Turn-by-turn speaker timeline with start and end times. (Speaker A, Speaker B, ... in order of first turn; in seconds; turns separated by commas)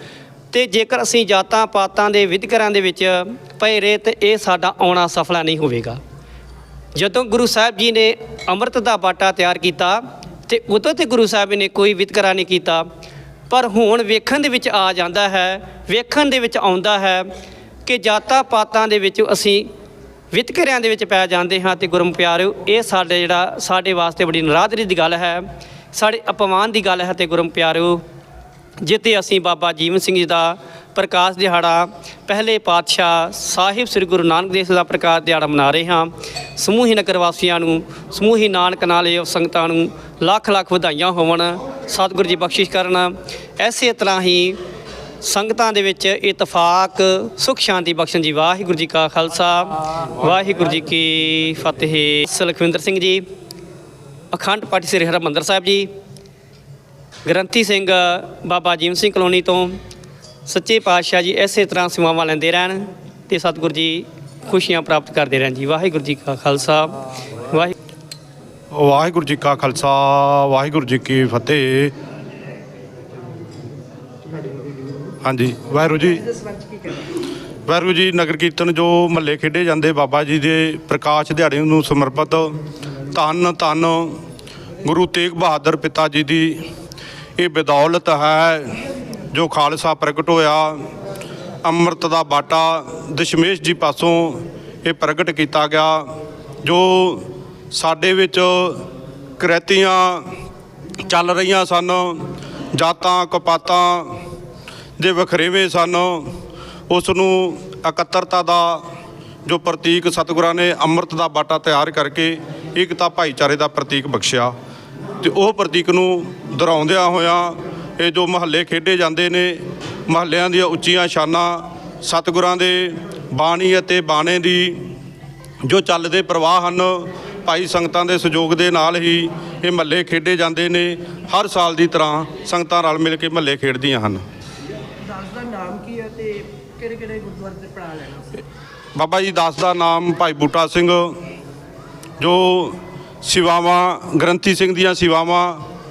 Speaker A: 0.5-6.0, Speaker A: 7.0-12.9, Speaker A: 13.5-17.3, Speaker A: 17.9-19.7, Speaker A: 20.3-28.0, Speaker A: 28.8-44.6, Speaker A: 45.2-53.2, Speaker A: 54.3-55.9, Speaker A: 57.3-59.8, Speaker A: 60.5-67.0, Speaker B: 68.7-71.9, Speaker B: 75.2-76.2, Speaker C: 75.9-77.0, Speaker B: 77.7-82.5, Speaker B: 83.1-84.2, Speaker B: 84.8-86.6, Speaker B: 87.4-88.8, Speaker B: 89.3-90.8, Speaker B: 91.7-96.0, Speaker B: 96.6-98.8, Speaker B: 99.4-100.2, Speaker B: 101.1-102.2, Speaker B: 102.8-104.1, Speaker B: 105.0-106.3, Speaker B: 106.9-108.8, Speaker B: 109.5-114.5, Speaker B: 115.2-124.8, Speaker B: 125.7-134.2, Speaker C: 135.0-138.3, Speaker B: 139.0-141.1, Speaker B: 142.2-145.6